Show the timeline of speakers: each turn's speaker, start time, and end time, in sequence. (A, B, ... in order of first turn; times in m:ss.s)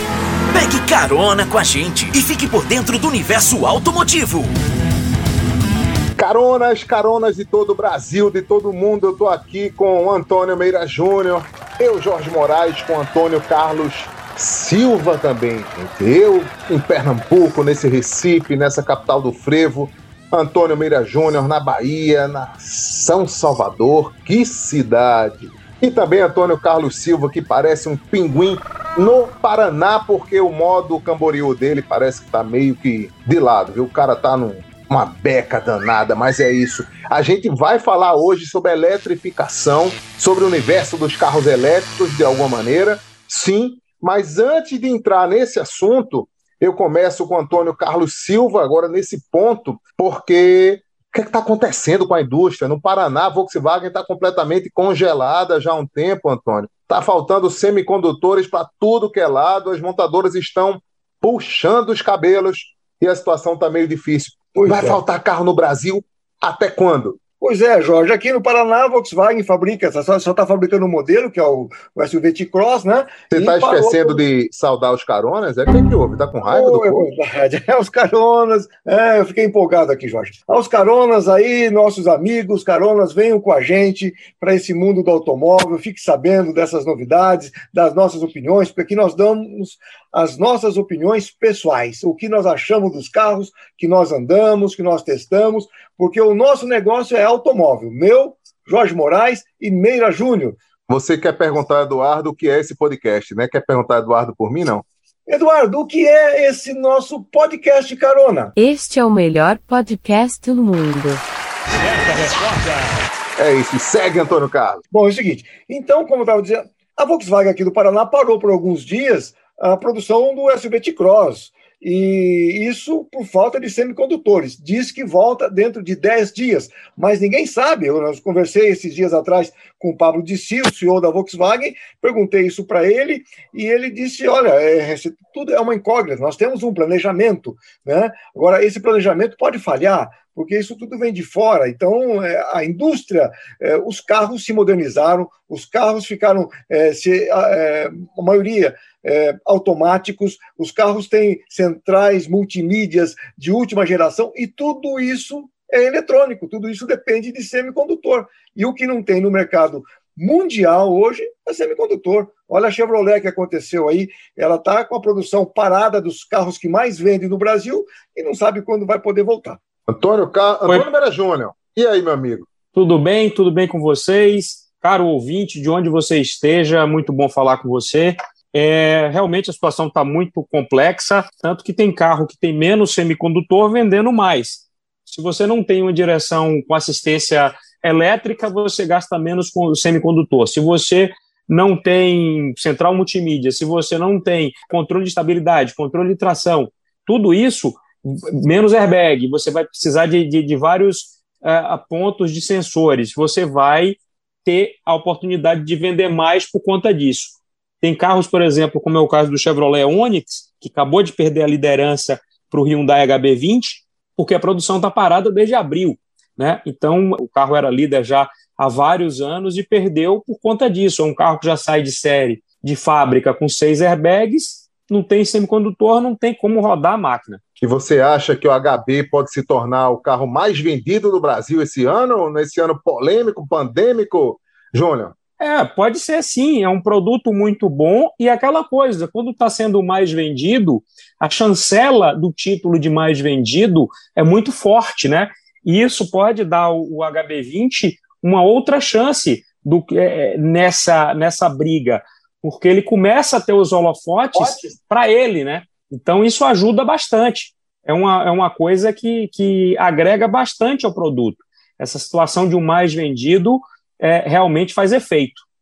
0:00.5-0:04.5 A
0:06.2-1:07.2 B
1:04.6-1:05.0 C
1:07.4-1:14.2 C
1:13.3-1:17.1 B
1:16.4-1:40.6 C
1:40.9-1:44.8 B
1:45.3-1:48.5 C
1:48.6-1:51.2 D
1:53.4-1:54.8 B
1:54.9-2:49.6 C
2:49.9-2:52.5 B
2:52.7-3:47.4 E
3:47.6-3:55.1 B
3:55.4-4:25.4 E
4:14.3-4:14.7 C